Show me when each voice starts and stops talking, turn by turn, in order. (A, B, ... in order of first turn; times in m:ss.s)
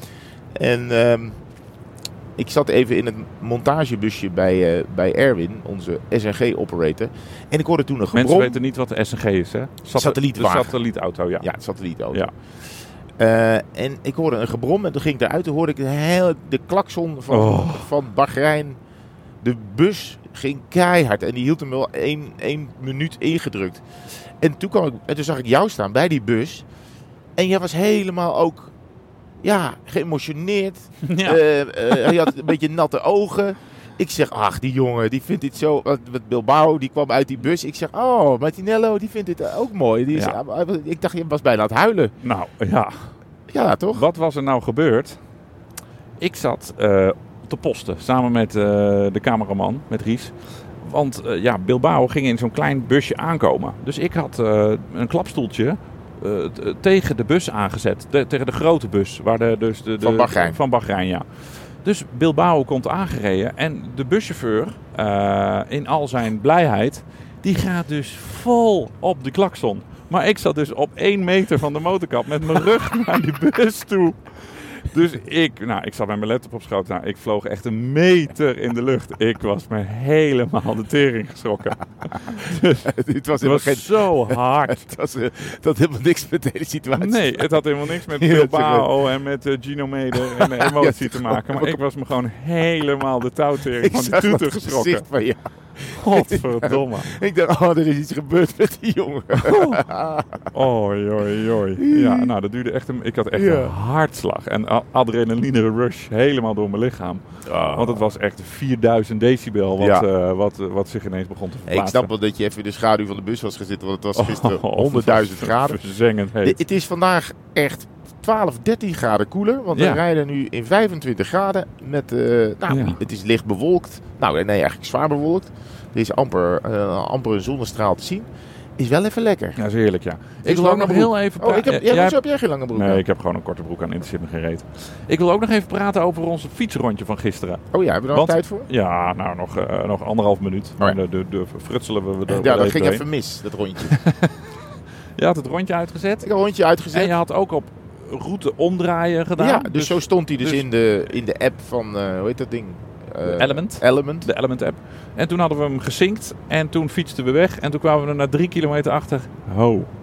0:00.6-0:01.4 A
0:02.4-0:08.6 A
0:08.1-0:11.5 B
0:09.9-0:10.7 A
0:11.4-0:12.3 A
0:13.2-0:18.8 A
0:17.3-0:17.9 B
0:19.4-0:23.8 A
0:24.4-0:26.6 A
0:27.4-0:28.7 A
0:29.4-0:42.1 A
0:31.0-0:32.1 B
0:40.1-0:40.4 B
0:42.2-0:43.1 B
0:43.5-0:44.0 A
0:43.9-0:45.2 B
0:46.2-1:22.9 B
1:00.0-1:00.6 A
1:22.5-1:29.0 A
1:23.4-1:24.9 B
1:27.0-1:35.0 B
1:30.1-1:31.8 A
1:33.8-1:40.4 A
1:36.0-1:37.1 B
1:39.4-1:39.8 B
1:40.5-1:52.1 B
1:41.8-1:42.3 A
1:43.3-1:43.7 A
1:47.4-1:48.0 A
1:49.8-1:50.1 A
1:51.7-1:55.8 A
1:54.2-1:56.6 B
1:56.4-2:08.3 A
1:59.7-2:00.0 B
2:02.7-2:03.0 B
2:08.8-2:09.6 A
2:09.6-2:12.2 B
2:10.4-2:13.0 A
2:12.7-2:23.0 B
2:17.7-2:18.7 A
2:22.3-2:24.0 A
2:23.9-2:24.4 B
2:25.2-2:26.3 B
2:26.2-2:27.1 A
2:26.9-2:30.7 B
2:29.4-2:34.3 A
2:33.2-2:39.9 B